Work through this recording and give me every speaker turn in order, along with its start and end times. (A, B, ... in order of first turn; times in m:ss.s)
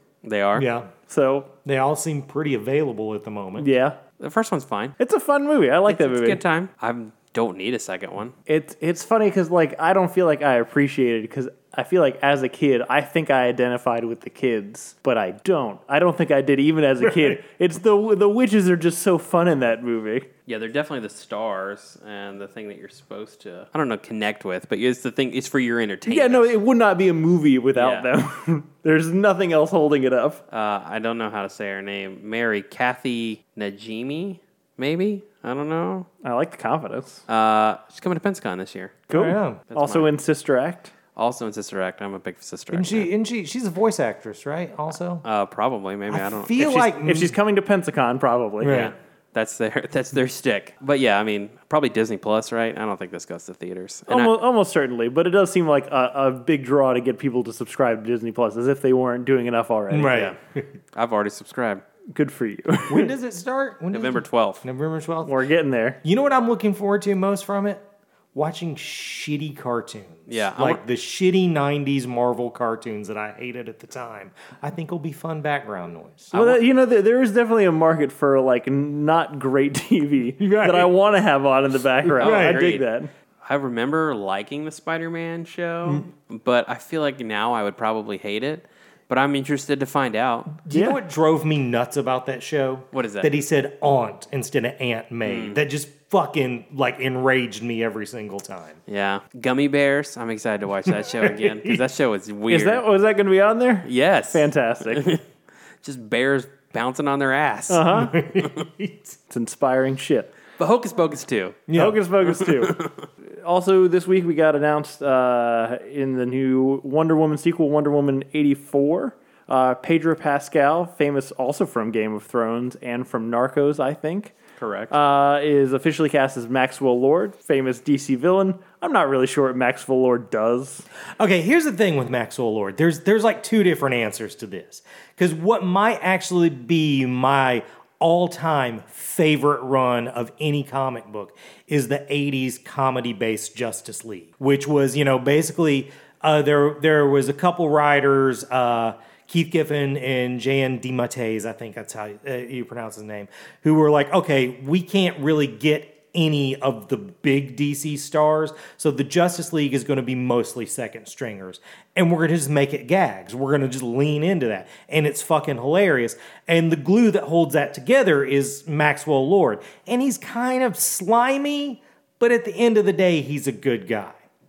0:00.2-0:00.7 A
0:00.5-0:00.9 B
0:01.1-0:01.5 C
0:01.6-0:03.7 B
0:03.6-0:04.0 C
0:04.2-0:05.0 A
0:05.0-0:06.4 C
0:05.9-0:08.3 A
0:08.5-0:20.3 C
0:17.0-0:17.4 B
0:20.4-0:26.4 A
0:26.0-0:30.4 C
0:27.7-0:28.1 A
0:30.5-0:36.1 A
0:36.2-0:37.2 C
0:37.3-0:39.1 A
0:39.1-0:40.9 C
0:39.1-0:39.6 B
0:39.7-0:40.1 A
0:41.2-0:43.1 A
0:42.7-0:45.2 B
0:45.2-0:46.8 A
0:46.1-0:47.4 B
0:46.6-0:48.8 C
0:48.6-0:48.9 B
0:48.6-0:54.3 A
0:54.1-1:00.2 C
0:59.9-1:00.7 B
1:00.1-1:00.4 A
1:00.9-1:01.8 A
1:02.1-1:03.1 C
1:02.9-1:05.4 B
1:03.9-1:04.6 A
1:05.2-1:06.0 C
1:06.0-1:07.8 B
1:08.3-1:16.3 B
1:10.3-1:10.8 A
1:16.3-1:16.6 A
1:16.3-1:23.1 C
1:20.4-1:20.9 B
1:22.1-1:22.6 B
1:22.2-1:22.9 A
1:23.4-1:30.5 A
1:30.6-1:38.8 B
1:30.7-1:31.0 C
1:32.9-1:33.3 A
1:35.2-1:35.6 A
1:38.9-1:42.8 A
1:40.8-1:41.8 B
1:42.5-1:45.2 C
1:43.8-1:45.2 A
1:45.8-1:47.9 A
1:47.7-1:48.2 C
1:47.9-1:49.2 B
1:49.3-1:50.3 C
1:50.6-1:51.7 A
1:51.7-1:52.0 B
1:51.7-1:52.8 C
1:52.3-1:53.0 A
1:53.4-2:04.3 C
2:04.6-2:04.9 A
2:04.9-2:10.8 C
2:11.2-2:54.2 B